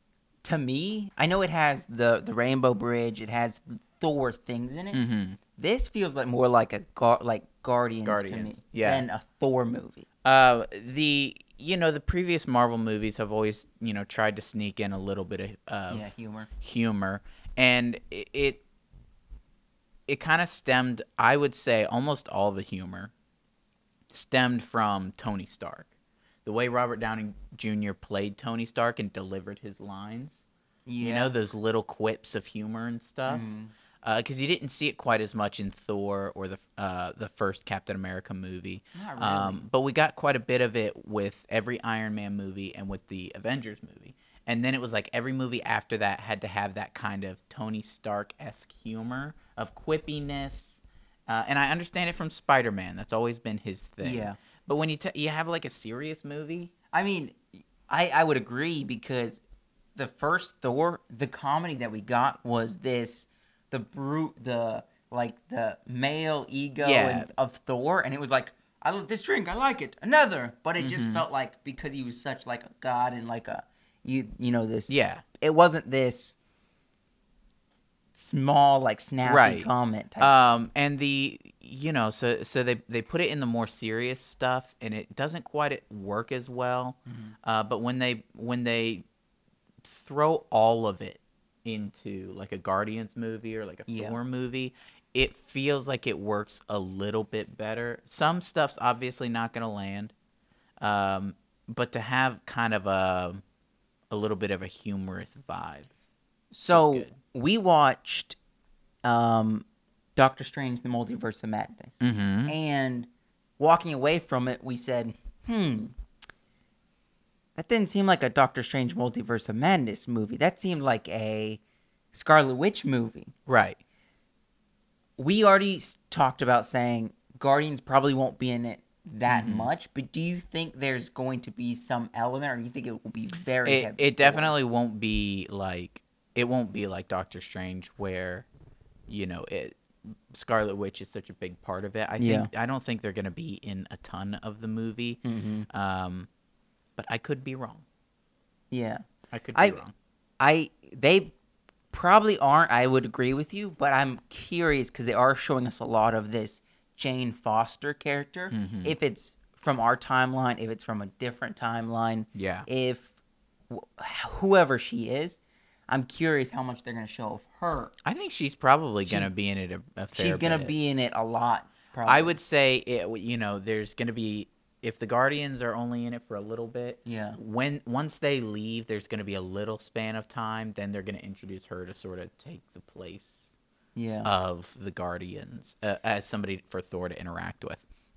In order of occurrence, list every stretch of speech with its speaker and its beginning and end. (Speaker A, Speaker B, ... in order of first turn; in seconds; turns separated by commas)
Speaker A: 0.4-5.0, Speaker B: 4.9-5.4, Speaker A: 5.5-10.1, Speaker B: 8.0-9.0, Speaker B: 10.2-18.6, Speaker A: 15.9-16.5, Speaker B: 20.1-23.1, Speaker B: 24.1-25.9, Speaker B: 26.4-30.4, Speaker A: 30.9-31.4, Speaker B: 31.0-33.5, Speaker A: 33.2-33.7, Speaker B: 34.0-56.7, Speaker A: 38.9-39.6, Speaker A: 54.0-54.4, Speaker A: 56.9-59.4, Speaker A: 59.9-76.3, Speaker B: 66.8-67.3, Speaker B: 70.8-71.2, Speaker B: 74.9-75.2, Speaker A: 78.1-80.3, Speaker B: 79.2-89.0, Speaker A: 87.1-87.3, Speaker B: 89.8-100.1, Speaker A: 93.9-94.2, Speaker B: 100.8-103.4, Speaker B: 104.1-105.9, Speaker A: 106.5-108.4, Speaker B: 106.7-107.2, Speaker A: 109.0-115.9, Speaker B: 112.0-112.5, Speaker A: 117.5-121.6, Speaker A: 122.1-123.3, Speaker B: 123.5-123.8, Speaker A: 125.2-134.6, Speaker B: 129.3-129.7, Speaker B: 133.6-138.5, Speaker B: 139.1-146.3, Speaker A: 142.2-142.5, Speaker A: 145.2-145.7, Speaker B: 147.0-147.8, Speaker A: 148.7-149.8, Speaker B: 149.3-149.9, Speaker A: 150.4-151.3, Speaker A: 151.9-163.1, Speaker B: 158.5-158.9, Speaker B: 162.3-162.7, Speaker A: 163.7-167.9, Speaker B: 168.0-170.8, Speaker A: 169.0-169.3, Speaker A: 170.1-172.4, Speaker B: 172.0-183.5, Speaker A: 177.1-177.4, Speaker A: 183.9-184.3, Speaker B: 184.2-187.8